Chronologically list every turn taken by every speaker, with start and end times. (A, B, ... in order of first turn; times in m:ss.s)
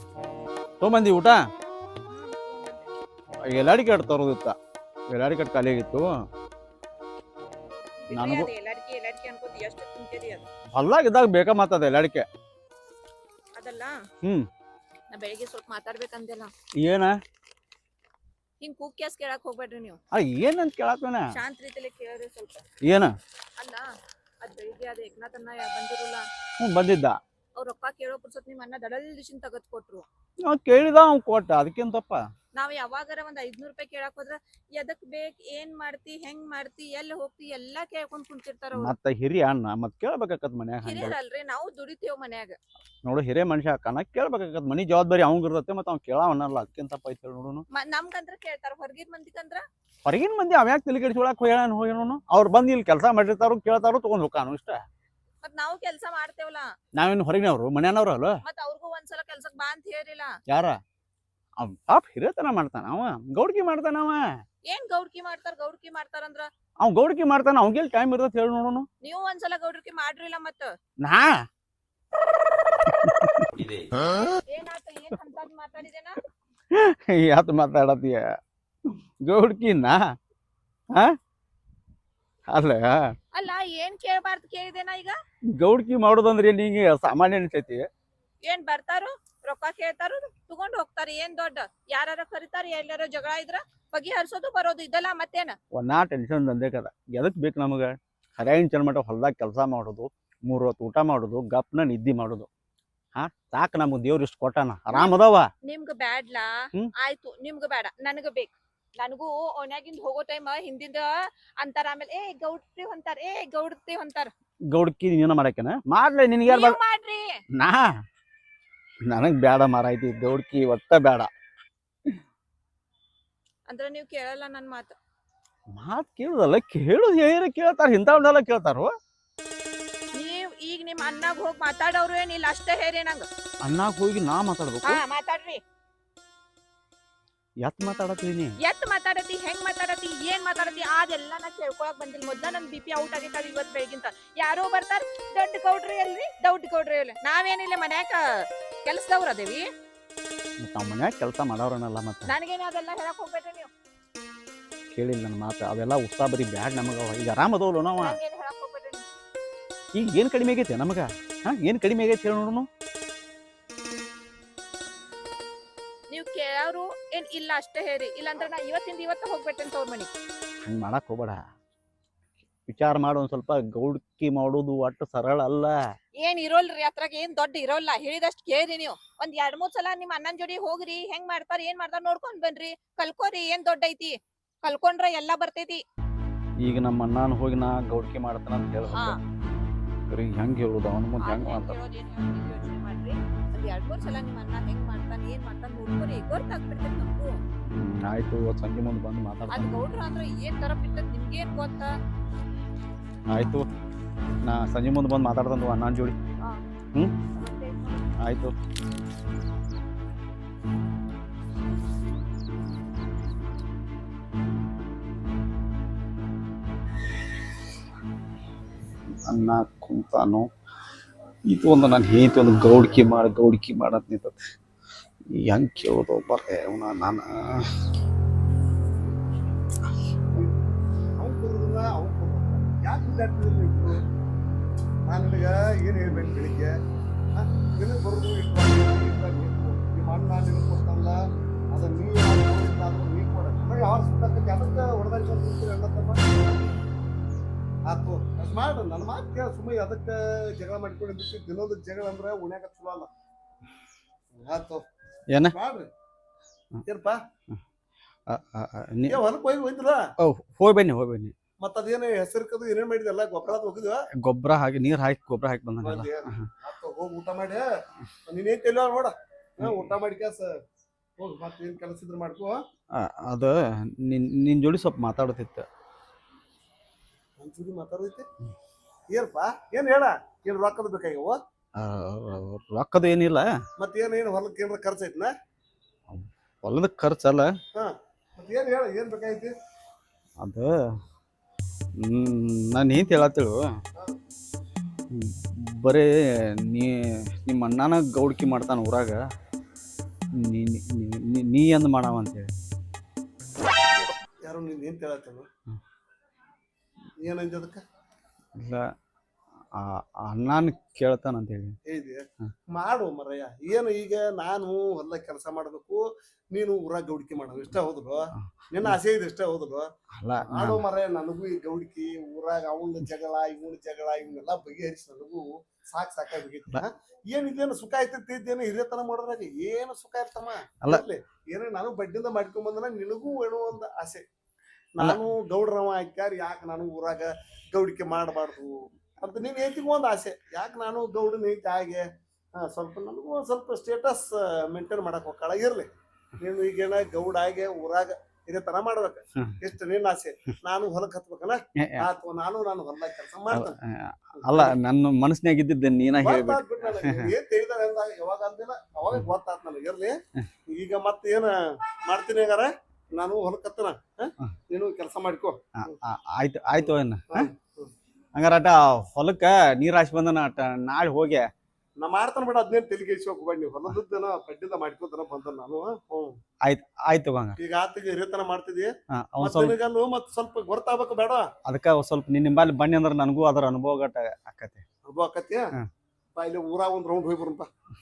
0:00.8-0:01.4 A
0:02.1-0:02.9 B
0:03.4-0:04.5 A
0:05.1-0:06.0 A
0:08.0-0:10.4 B
0:08.1-0:08.5 A
0:10.7-0:12.2 A
0:13.6-0:13.9 B
0:15.1-0:16.5 B
0:16.8-0:17.2 A
0:18.6-0:20.0 B
0:20.1-0:21.3 A
0:21.3-0:22.7 B
0:22.8-0:23.1 A
0:23.6-0:23.8 B
0:24.4-0:26.2 B
0:26.6-0:27.2 A
0:27.6-0:30.0 B
0:30.4-0:32.2 A
0:32.5-0:38.9 B
0:38.7-0:41.2 A
0:40.8-0:42.6 B
0:43.0-0:47.6 A
0:47.7-0:49.6 B
0:50.0-0:54.8 A
0:55.4-0:56.8 B
0:56.9-0:58.4 A
0:58.4-1:00.3 B
1:00.5-1:00.8 A
1:01.6-1:04.2 A
1:04.7-1:06.5 B
1:06.8-1:08.9 A
1:09.0-1:10.7 B
1:11.0-1:11.3 A
1:13.0-1:13.5 A
1:14.5-1:16.2 B
1:16.7-1:18.2 A
1:19.2-1:20.0 A
1:22.5-1:23.1 A
1:23.3-1:25.2 B
1:25.6-1:27.8 A
1:28.4-1:35.6 B
1:35.7-1:42.5 A
1:43.2-1:45.5 A
1:44.9-1:51.1 B
1:51.6-1:54.3 B
1:54.7-1:56.8 A
1:56.4-1:57.3 B
1:57.6-1:57.9 A
1:59.1-2:01.3 A
2:03.7-2:05.0 B
2:05.7-2:08.9 A
2:10.1-2:13.3 B
2:13.6-2:15.0 A
2:14.8-2:15.6 B
2:17.6-2:18.5 A
2:18.6-2:28.2 B
2:28.8-2:29.6 B
2:30.6-2:32.3 A
2:32.2-2:33.7 B
2:34.9-2:38.2 A
2:38.0-2:39.0 B
2:39.9-2:42.7 A
2:46.1-2:50.1 B
2:50.6-2:51.4 A
2:52.6-2:55.8 A
2:56.2-3:05.8 B
3:06.6-3:09.2 A
3:10.1-3:11.8 A
3:11.3-3:17.4 B
3:17.7-3:19.8 A
3:19.5-3:21.9 B
3:23.3-3:23.6 A
3:24.4-3:26.2 A
3:27.2-3:28.2 B
3:28.2-3:28.5 A
3:39.2-3:40.5 A
3:41.5-3:44.4 A
3:45.3-3:47.7 A
3:51.2-3:54.0 C
3:55.1-3:56.7 C
3:57.3-4:01.2 C
4:01.7-4:06.2 C
4:07.9-4:13.1 C
4:14.4-4:14.8 C
4:15.4-4:15.9 C
4:16.8-4:17.2 C
4:18.3-4:19.2 A
4:19.1-4:20.0 C
4:20.2-4:21.3 A
4:21.6-4:24.0 C
4:24.2-4:26.4 A
4:25.8-4:27.6 C
4:28.3-4:30.5 C
4:29.6-4:29.9 A
4:31.2-4:32.6 C
4:32.9-4:35.6 A
4:37.4-4:38.2 C
4:39.1-4:41.4 C
4:41.8-4:43.5 A
4:43.8-4:45.3 C
4:46.1-4:47.5 A
4:47.7-4:49.5 C
4:50.4-4:50.7 A
4:52.0-4:53.6 A
4:55.1-4:56.0 A
4:56.6-4:59.2 A
5:00.4-5:02.5 A
5:04.4-5:05.5 C
5:07.2-5:07.8 C
5:08.6-5:08.8 A
5:09.7-5:11.7 A
5:11.8-5:19.8 C
5:18.4-5:19.0 A
5:20.1-5:20.8 A
5:20.5-5:34.2 C
5:35.0-5:42.0 C
5:42.6-5:53.7 C
5:51.8-5:52.0 A
5:53.5-5:57.3 A
5:54.4-5:54.7 C
5:56.2-6:00.2 C
6:00.7-6:01.5 C
6:02.1-6:05.8 C
6:05.8-6:07.5 A
6:07.3-6:07.9 C
6:08.3-6:11.4 A
6:12.0-6:16.4 C
6:16.6-6:17.6 A
6:17.6-6:21.5 C
6:19.1-6:19.7 A
6:21.6-6:24.8 A
6:25.1-6:25.7 C
6:26.4-6:27.7 C